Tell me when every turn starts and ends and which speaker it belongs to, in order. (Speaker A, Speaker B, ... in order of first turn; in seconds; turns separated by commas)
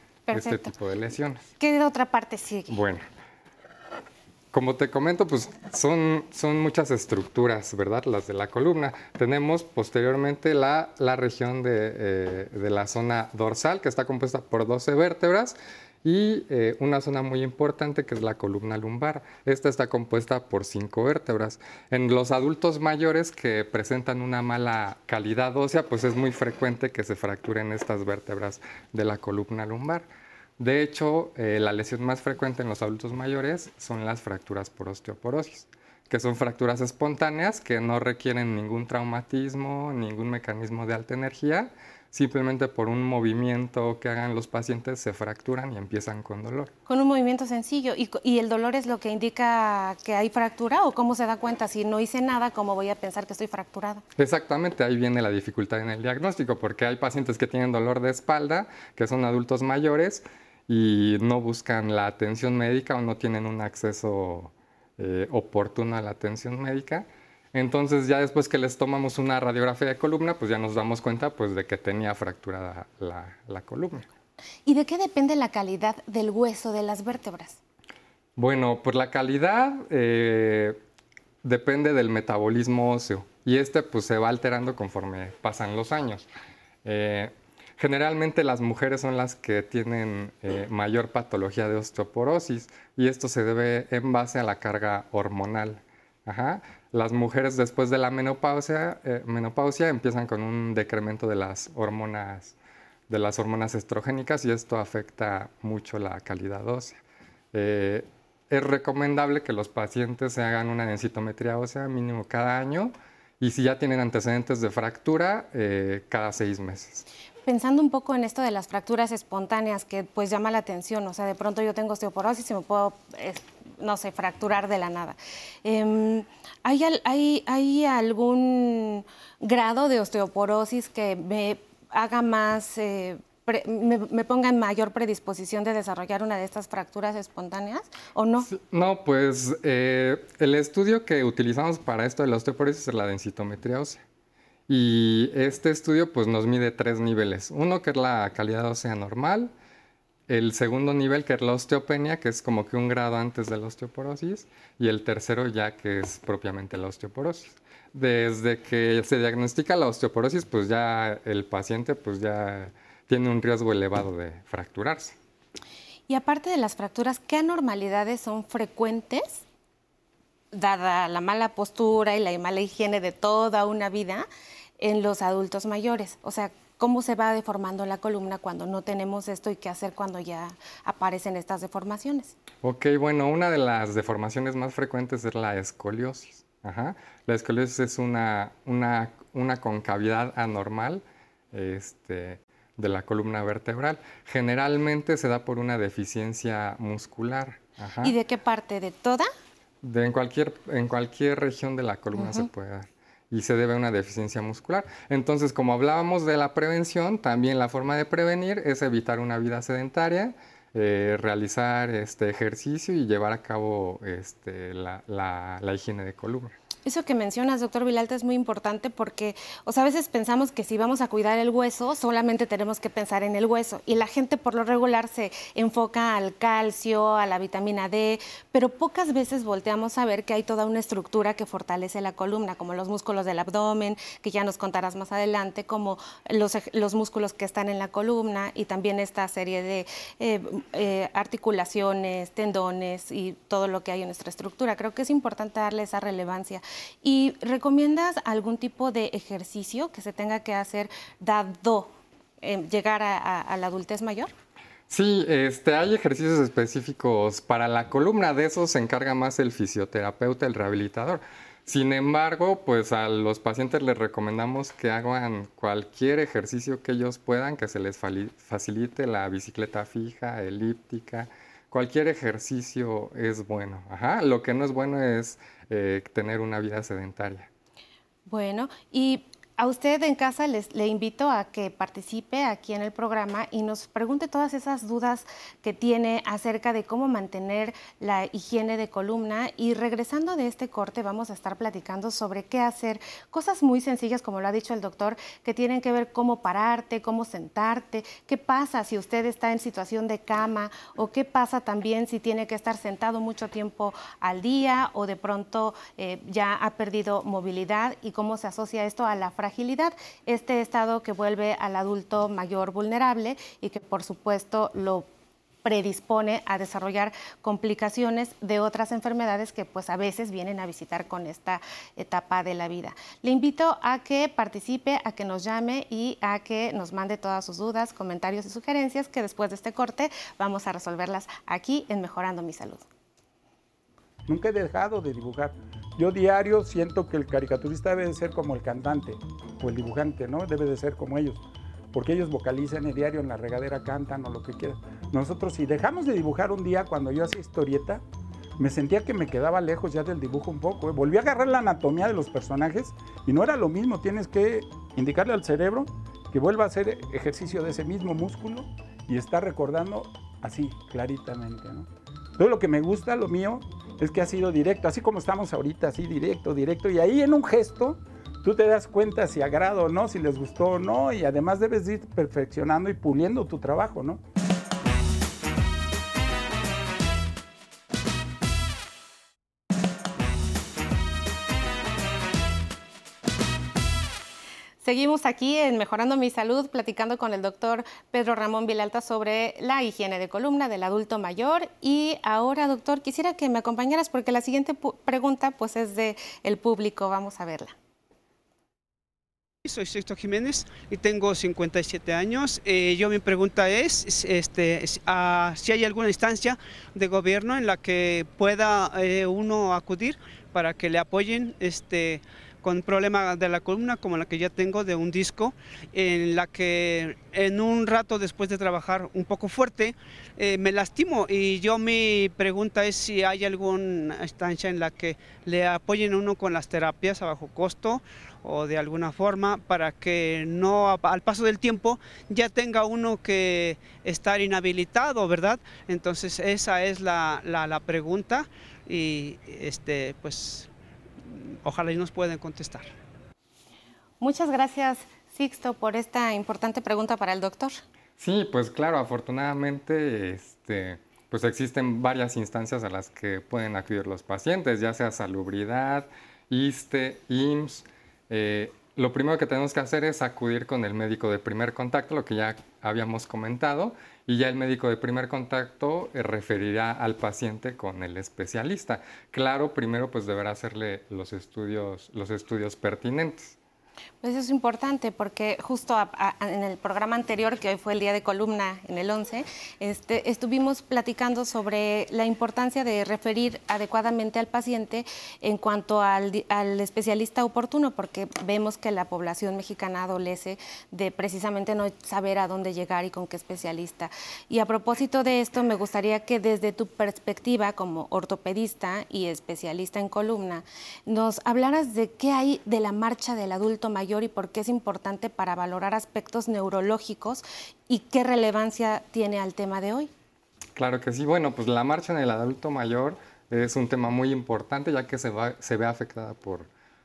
Speaker A: 0.3-0.7, Speaker B: 0.3-1.4, Speaker A: 1.6-2.8, Speaker B: 2.7-3.0, Speaker B: 4.5-30.1, Speaker B: 30.6-46.7, Speaker A: 46.9-54.0, Speaker B: 54.2-74.1, Speaker A: 74.7-77.6, Speaker B: 78.4-80.8, Speaker B: 81.4-86.3, Speaker B: 86.8-102.5, Speaker B: 103.1-107.0, Speaker B: 107.5-117.0, Speaker A: 117.5-138.5, Speaker B: 138.5-144.0, Speaker B: 144.7-149.5, Speaker B: 150.3-165.1, Speaker A: 166.1-169.4, Speaker A: 170.5-174.2, Speaker A: 174.8-182.3, Speaker B: 182.6-198.1, Speaker A: 198.0-199.3, Speaker B: 199.8-216.5, Speaker A: 202.2-202.5, Speaker A: 216.8-254.3, Speaker B: 254.9-277.5, Speaker A: 278.3-315.1, Speaker A: 315.6-332.9, Speaker C: 334.3-341.4, Speaker C: 341.9-348.0, Speaker C: 348.6-374.2, Speaker A: 384.8-397.7, Speaker D: 399.6-440.7, Speaker D: 441.2-442.9, Speaker A: 444.2-447.8, Speaker B: 448.2-473.6, Speaker A: 474.2-510.1, Speaker B: 510.8-516.7